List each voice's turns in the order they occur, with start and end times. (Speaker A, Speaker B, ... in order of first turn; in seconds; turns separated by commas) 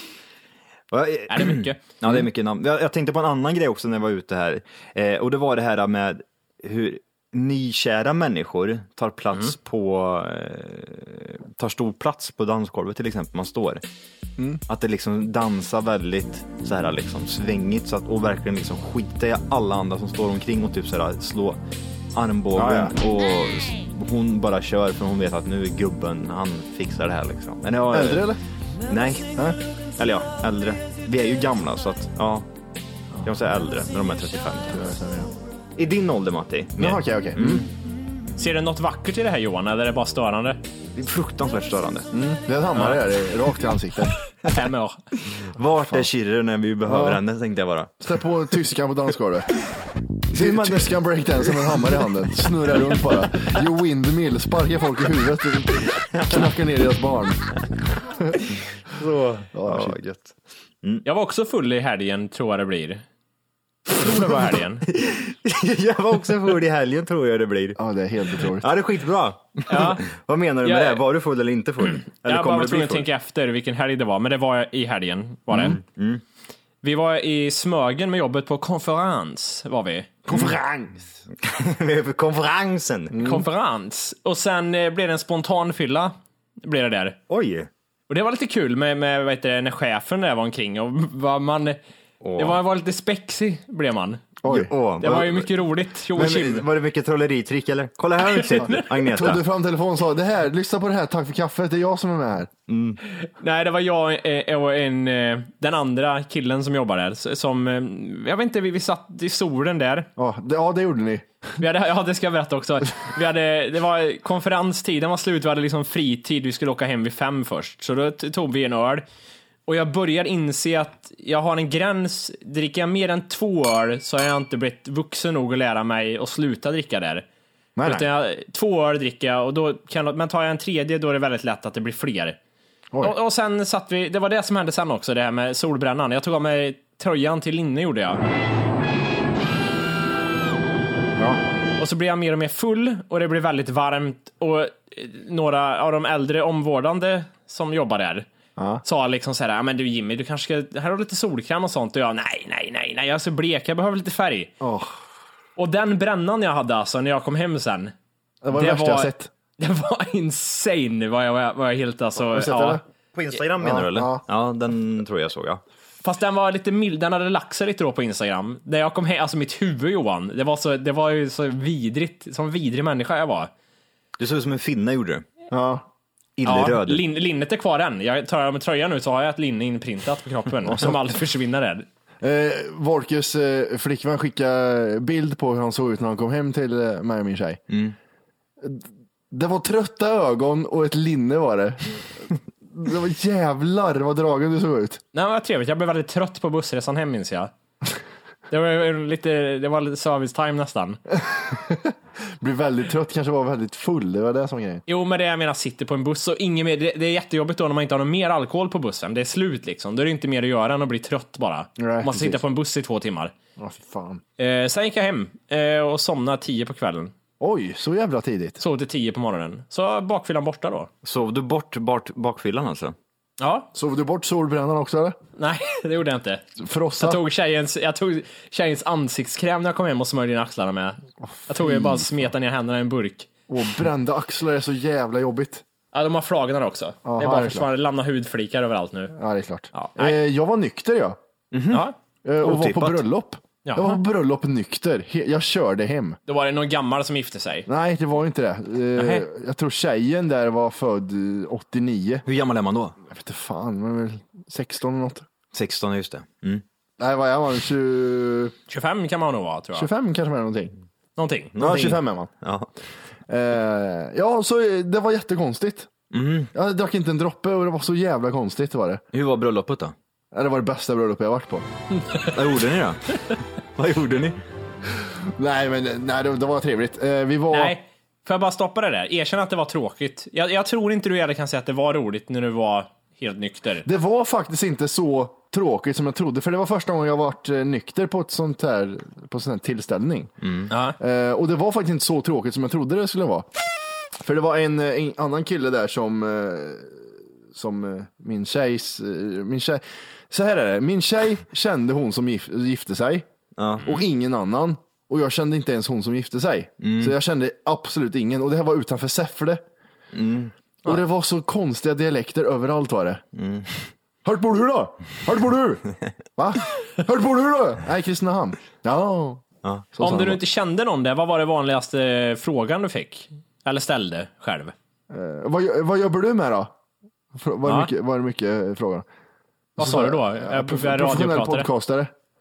Speaker A: 0.9-13.8, Speaker B: 1.3-1.8, Speaker A: 14.7-21.6, Speaker A: 22.1-28.3, Speaker C: 22.5-22.9, Speaker C: 27.9-28.4, Speaker A: 28.9-29.4, Speaker A: 30.0-32.5, Speaker A: 33.2-34.8, Speaker C: 34.7-35.3, Speaker A: 35.8-37.7, Speaker C: 36.8-37.7, Speaker B: 38.4-40.6, Speaker A: 40.9-42.1, Speaker C: 42.1-44.1, Speaker B: 44.4-45.0, Speaker A: 45.3-48.0, Speaker C: 46.9-47.2, Speaker C: 48.0-49.5, Speaker A: 50.3-52.0, Speaker C: 50.3-57.5, Speaker A: 58.9-61.0, Speaker C: 59.5-60.0, Speaker B: 61.0-63.0, Speaker B: 63.9-64.8, Speaker A: 64.9-67.8, Speaker C: 67.8-68.7, Speaker A: 68.4-73.1, Speaker B: 69.7-70.0, Speaker B: 70.6-71.0, Speaker B: 72.2-75.8, Speaker A: 75.5-76.2, Speaker B: 76.8-80.2, Speaker C: 80.2-81.1, Speaker A: 81.4-83.2, Speaker C: 83.1-83.5, Speaker B: 83.2-87.2, Speaker A: 87.3-87.7, Speaker B: 88.1-91.8, Speaker A: 92.2-92.6, Speaker B: 92.4-94.3, Speaker C: 94.4-94.7, Speaker A: 94.5-95.5, Speaker B: 95.0-96.7, Speaker A: 96.1-99.4, Speaker B: 98.3-98.8, Speaker C: 98.6-102.5, Speaker A: 102.7-103.0, Speaker B: 103.2-110.1, Speaker C: 110.2-111.3, Speaker B: 111.6-119.0, Speaker B: 119.7-127.2, Speaker C: 127.8-128.1, Speaker B: 127.8-132.4, Speaker B: 133.0-138.2, Speaker B: 141.8-148.3, Speaker C: 148.6-148.8, Speaker B: 148.8-154.5, Speaker C: 154.6-154.9, Speaker B: 155.6-157.9, Speaker C: 158.4-159.3, Speaker B: 158.5-162.8, Speaker C: 162.3-162.8, Speaker A: 163.1-165.6, Speaker C: 163.6-164.2, Speaker B: 166.0-173.5, Speaker A: 174.2-175.2, Speaker C: 175.5-175.8, Speaker A: 176.4-177.0, Speaker B: 176.4-181.9, Speaker C: 182.2-187.6, Speaker A: 187.7-187.9, Speaker C: 188.6-195.0, Speaker B: 195.1-197.5, Speaker B: 198.5-201.0, Speaker C: 201.1-204.8, Speaker B: 204.9-213.3, Speaker C: 211.8-212.4, Speaker C: 213.6-214.2, Speaker B: 214.4-217.1, Speaker C: 217.4-218.6, Speaker B: 218.6-220.9, Speaker A: 221.0-222.9, Speaker B: 223.4-223.7, Speaker C: 223.7-225.2, Speaker B: 225.4-226.4, Speaker C: 226.6-227.2, Speaker B: 227.0-233.3, Speaker C: 231.3-232.1, Speaker C: 233.5-235.6, Speaker B: 235.9-239.1, Speaker C: 237.0-237.7, Speaker C: 239.1-241.2, Speaker B: 239.7-240.2, Speaker A: 241.5-241.8, Speaker C: 242.2-246.2, Speaker A: 242.4-243.0, Speaker B: 243.6-244.0, Speaker B: 246.3-247.7, Speaker C: 247.7-252.2, Speaker B: 248.9-249.2, Speaker A: 252.2-252.9, Speaker C: 253.1-255.3, Speaker A: 255.5-256.6, Speaker C: 257.0-258.5, Speaker B: 258.7-259.9, Speaker C: 259.7-260.7, Speaker B: 261.2-261.9, Speaker C: 261.6-262.3, Speaker A: 261.6-262.7, Speaker C: 263.3-265.9, Speaker A: 266.1-266.5, Speaker C: 266.5-269.0, Speaker A: 269.1-269.9, Speaker C: 270.3-271.6, Speaker A: 272.2-273.2, Speaker A: 273.7-274.4, Speaker C: 275.0-277.7, Speaker B: 277.5-283.9, Speaker C: 283.8-290.3, Speaker A: 290.4-290.7, Speaker B: 290.7-290.9, Speaker C: 291.0-293.5, Speaker C: 294.2-303.3, Speaker A: 303.6-303.9, Speaker C: 303.8-309.6, Speaker A: 306.8-307.1, Speaker A: 310.1-310.5, Speaker C: 310.8-313.2, Speaker A: 313.3-313.9, Speaker C: 314.2-315.8, Speaker C: 316.4-320.4, Speaker B: 320.0-324.7, Speaker C: 325.1-326.7, Speaker C: 327.3-329.1, Speaker C: 329.8-332.1, Speaker B: 329.8-331.7